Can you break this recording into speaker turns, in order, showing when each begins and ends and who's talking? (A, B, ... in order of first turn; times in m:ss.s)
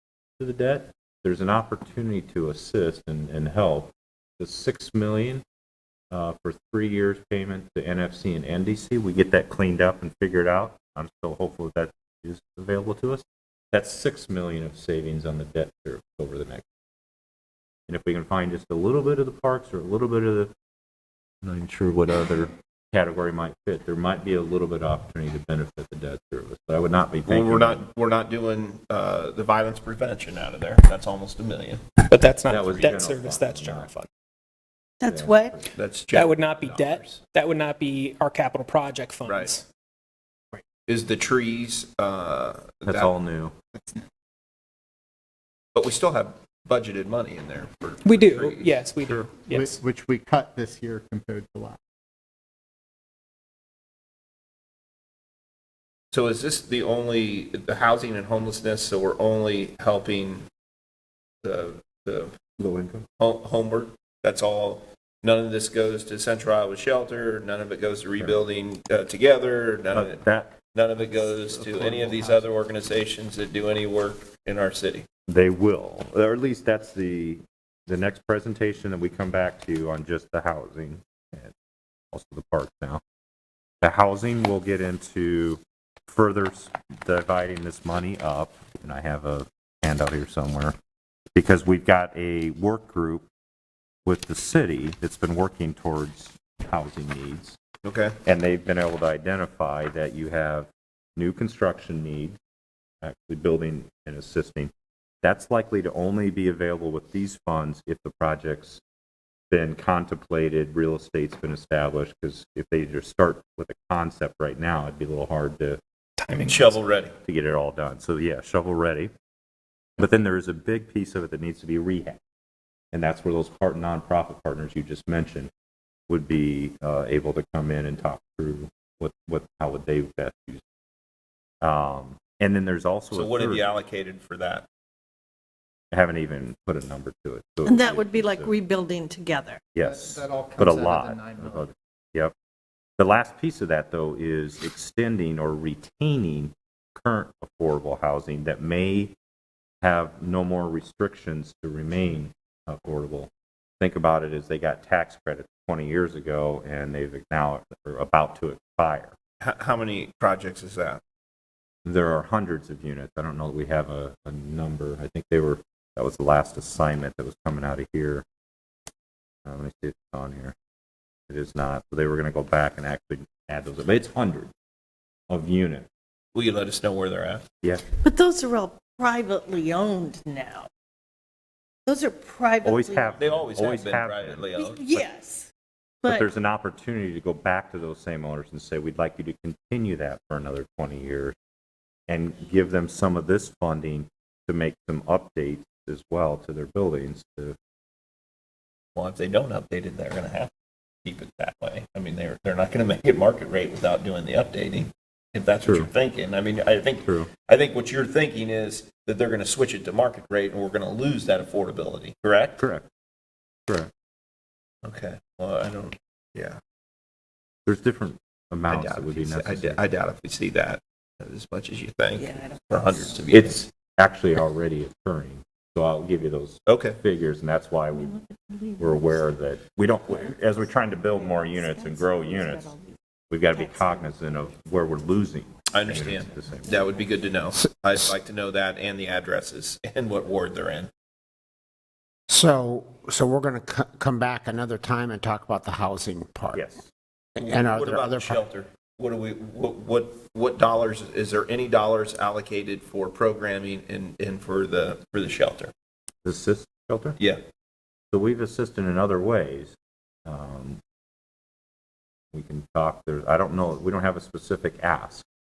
0:00.4-0:05.4 A
0:06.1-0:16.6 A
0:17.9-0:20.5 A
0:21.4-0:27.8 A
0:27.3-0:31.8 B
0:32.1-0:34.1 C
0:32.5-0:33.9 A
0:35.0-0:35.6 D
0:35.1-0:35.7 A
0:35.8-0:37.2 B
0:36.1-0:39.6 C
0:39.3-0:39.5 B
0:40.9-0:43.2 B
0:42.9-0:43.6 A
0:45.8-0:48.8 B
0:48.0-0:49.8 C
0:49.5-0:51.8 E
0:56.1-1:00.4 B
1:01.4-1:02.3 B
1:02.6-1:03.1 A
1:03.2-1:10.2 B
1:08.2-1:08.4 A
1:09.9-1:10.6 A
1:10.7-1:15.1 B
1:11.0-1:12.5 E
1:15.3-1:21.5 A
1:22.1-1:23.0 A
1:23.8-1:30.8 A
1:31.3-1:33.3 A
1:34.0-1:37.6 A
1:37.8-1:38.2 B
1:38.2-1:42.4 A
1:43.0-1:48.8 A
1:49.5-1:55.8 A
1:56.2-1:56.8 C
1:56.4-1:57.1 B
1:57.3-1:59.1 A
2:00.0-2:02.2 A
2:02.9-2:05.5 A
2:06.1-2:10.6 A
2:11.6-2:13.7 A
2:13.1-2:14.7 B
2:15.9-2:18.5 A
2:17.6-2:19.8 D
2:19.8-2:22.3 A
2:19.8-2:21.7 E
2:23.0-2:29.2 A
2:29.8-2:39.2 A
2:39.4-2:41.0 B
2:41.8-2:48.2 A
2:49.4-2:50.5 A
2:51.3-2:54.5 A
2:55.3-2:55.9 A
2:56.3-2:57.4 B
2:58.0-3:00.7 D
3:01.9-3:03.2 D
3:02.6-3:04.4 A
3:03.2-3:05.0 B
3:04.6-3:05.5 D
3:06.0-3:06.3 D
3:06.1-3:11.4 A
3:12.1-3:17.6 A
3:19.0-3:20.5 B
3:21.0-3:32.6 B
3:25.6-3:25.9 A
3:27.0-3:27.3 A
3:32.6-3:32.9 A
3:34.8-3:36.6 B
3:37.7-3:39.8 A
3:38.7-3:43.6 B
3:42.2-3:43.1 D
3:43.3-3:48.2 A
3:46.7-3:47.0 B
3:48.0-3:49.2 D
3:48.8-3:52.8 A
3:51.1-3:53.0 D
3:53.3-3:56.7 A
3:53.5-3:54.3 D
3:55.7-4:00.9 B
4:02.3-4:06.6 F
4:06.5-4:06.9 A
4:07.4-4:08.4 F
4:07.4-4:15.7 B
4:16.2-4:17.2 A
4:18.1-4:20.8 A
4:22.3-4:25.2 A